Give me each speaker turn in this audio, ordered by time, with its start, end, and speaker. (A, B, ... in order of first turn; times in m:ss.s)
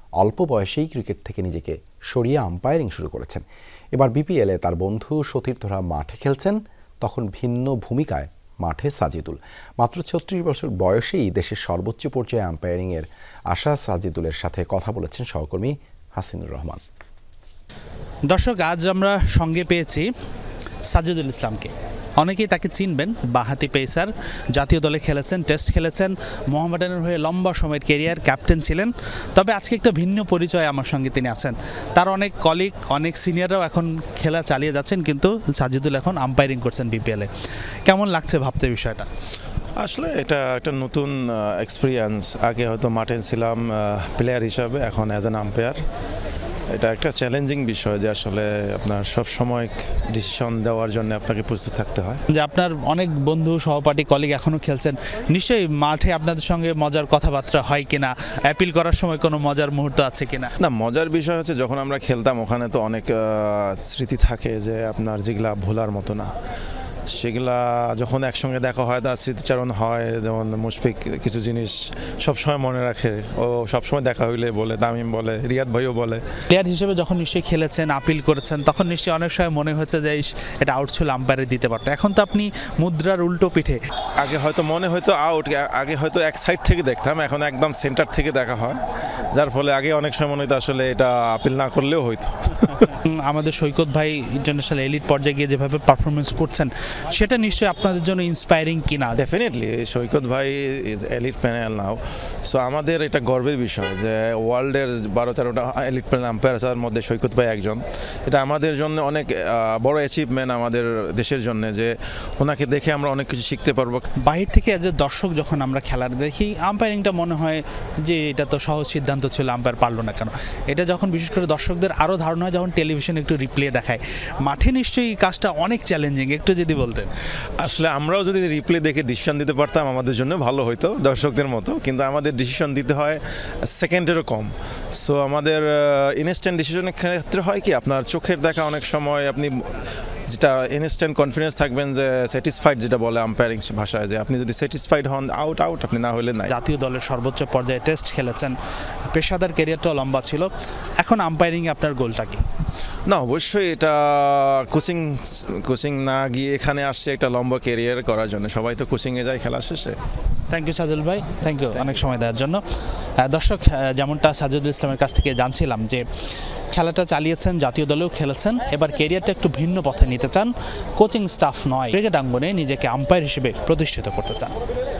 0:00.2-0:16.8 A
0:18.3-0:20.1 B
0:20.9-0:37.3 B
0:37.9-0:39.1 B
0:39.8-0:45.8 C
0:46.7-0:52.2 C
0:52.3-1:00.5 B
1:00.6-1:06.3 C
1:07.1-1:16.2 C
1:16.5-1:23.8 B
1:24.2-1:28.8 C
1:29.3-1:33.0 C
1:33.0-1:39.2 B
1:39.2-1:54.0 C
1:54.2-2:07.1 B
2:07.6-2:19.7 C
2:20.3-2:26.5 C
2:26.5-2:28.5 B
2:29.1-2:32.4 B
2:33.1-2:40.0 C
2:40.5-2:42.6 B
2:43.2-2:46.0 B
2:46.7-2:54.5 B